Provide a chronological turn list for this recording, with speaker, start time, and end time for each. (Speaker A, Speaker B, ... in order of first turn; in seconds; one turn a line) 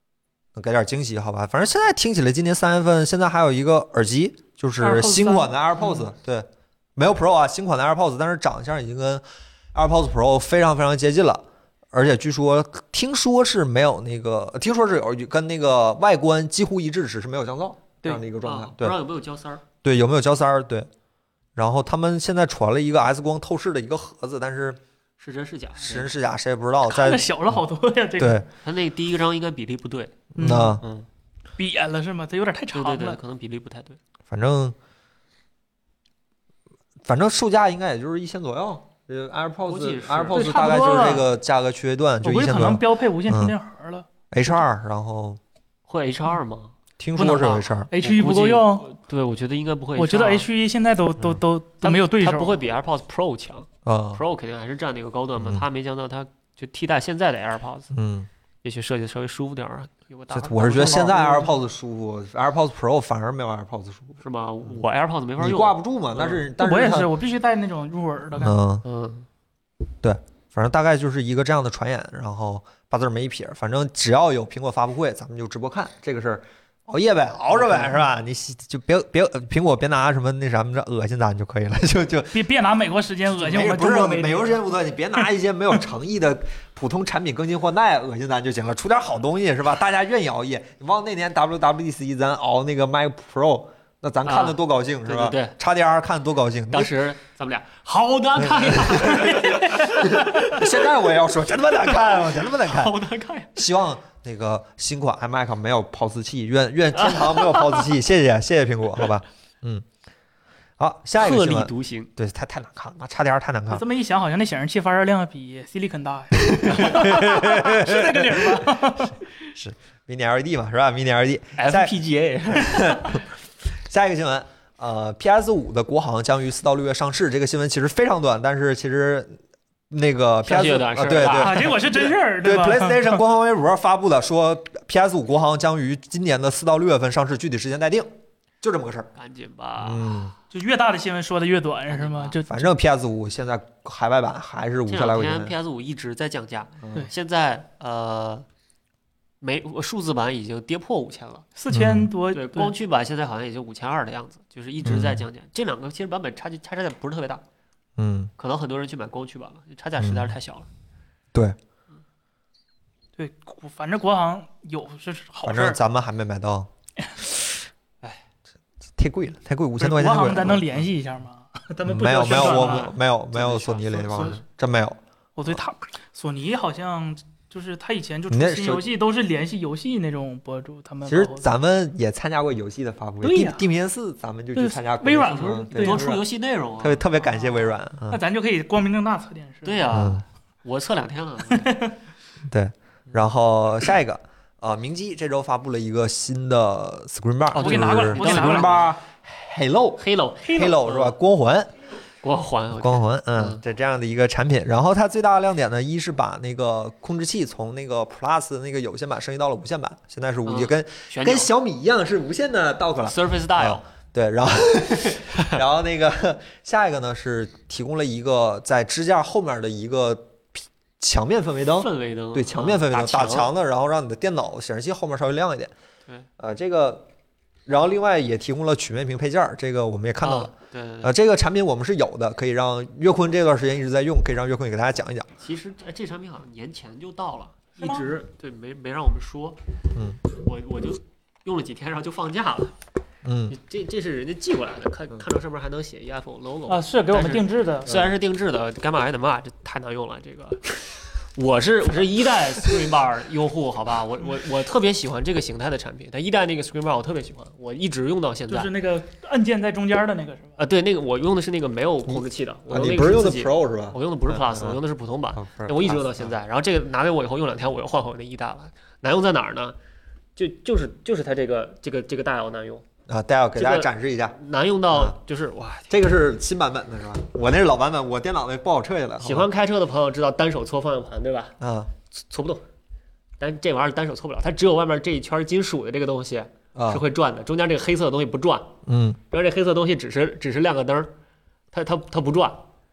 Speaker A: 0.6-9.2
Speaker B: 4.8-6.1
Speaker A: 9.7-19.0
Speaker C: 18.4-19.6
Speaker A: 19.8-20.9
Speaker A: 21.6-24.8
Speaker C: 25.2-26.1
Speaker A: 25.8-27.6
Speaker B: 26.9-28.4
Speaker A: 28.2-28.5
Speaker C: 28.6-31.1
Speaker A: 30.4-30.8
Speaker B: 30.4-30.8
Speaker B: 31.6-33.2
Speaker C: 32.7-34.0
Speaker A: 34.3-34.8
Speaker A: 37.0-43.5
Speaker C: 39.7-40.5
Speaker B: 40.3-41.3
Speaker B: 42.2-44.1
Speaker A: 44.3-45.4
Speaker C: 45.9-46.8
Speaker A: 47.0-47.9
Speaker B: 47.2-48.9
Speaker C: 47.9-50.5
Speaker B: 50.0-52.6
Speaker C: 51.8-57.9
Speaker A: 53.9-54.2
Speaker A: 55.4-55.6
Speaker A: 57.9-58.3
Speaker C: 58.6-61.5
Speaker A: 60.3-64.8
Speaker B: 60.8-61.5
Speaker C: 64.2-66.4
Speaker A: 65.4-67.1
Speaker B: 66.6-68.6
Speaker A: 68.3-68.8
Speaker C: 68.8-69.3
Speaker A: 70.0-82.4
Speaker B: 82.3-84.6
Speaker A: 83.3-96.9
Speaker C: 94.2-95.6
Speaker C: 96.7-100.8
Speaker A: 98.4-103.0
Speaker C: 101.9-103.6
Speaker A: 103.5-109.9
Speaker C: 107.0-107.9
Speaker A: 110.8-113.8
Speaker C: 111.2-112.1
Speaker B: 113.7-119.2
Speaker A: 116.4-118.8
Speaker A: 119.5-121.9
Speaker C: 121.6-123.2
Speaker A: 122.5-123.2
Speaker A: 123.8-129.4
Speaker A: 129.9-138.1
Speaker C: 130.4-131.7
Speaker B: 131.4-133.2
Speaker A: 138.6-139.1
Speaker C: 139.2-140.3
Speaker A: 139.8-140.3
Speaker B: 140.5-142.7
Speaker C: 141.9-142.4
Speaker A: 142.5-145.6
Speaker C: 144.9-148.5
Speaker A: 146.8-147.1
Speaker C: 149.4-151.5
Speaker B: 151.6-152.7
Speaker A: 151.7-152.1
Speaker C: 152.3-157.4
Speaker A: 154.8-155.2
Speaker A: 158.0-158.3
Speaker C: 158.4-160.7
Speaker A: 160.0-160.3
Speaker B: 163.2-165.8
Speaker A: 165.4-166.7
Speaker A: 169.0-170.9
Speaker B: 169.8-172.9
Speaker A: 171.8-175.6
Speaker C: 172.3-174.4
Speaker B: 173.9-174.4
Speaker B: 175.4-181.5
Speaker A: 178.3-178.9
Speaker A: 181.1-186.2
Speaker B: 183.2-183.7
Speaker B: 184.6-186.2
Speaker C: 185.3-187.0
Speaker A: 186.8-188.2
Speaker B: 187.4-190.0
Speaker C: 189.6-191.7
Speaker A: 189.9-190.2
Speaker B: 191.5-191.9
Speaker A: 192.5-201.7
Speaker C: 197.5-198.9
Speaker B: 197.6-198.8
Speaker C: 200.0-201.2
Speaker B: 200.5-200.8
Speaker C: 202.2-203.6
Speaker A: 202.7-225.7
Speaker C: 210.4-211.5
Speaker C: 213.1-213.8
Speaker C: 221.8-223.5
Speaker A: 226.4-227.1
Speaker A: 227.7-235.3
Speaker C: 230.2-231.1
Speaker C: 235.4-239.6
Speaker B: 237.8-238.1
Speaker A: 239.9-240.2
Speaker C: 240.3-242.7
Speaker A: 243.2-243.6
Speaker C: 243.5-258.7
Speaker B: 246.7-247.9
Speaker A: 247.9-248.1
Speaker B: 258.5-260.6
Speaker C: 260.6-269.8
Speaker A: 262.1-264.8
Speaker A: 265.4-266.3
Speaker C: 270.4-272.9
Speaker A: 273.1-274.4
Speaker C: 273.6-275.9
Speaker A: 274.9-275.2
Speaker A: 275.9-279.5
Speaker C: 279.2-281.6
Speaker A: 281.6-281.9
Speaker C: 282.1-282.6
Speaker C: 283.4-288.7
Speaker A: 286.8-287.0
Speaker A: 288.9-289.2
Speaker C: 289.3-291.1
Speaker C: 291.7-292.7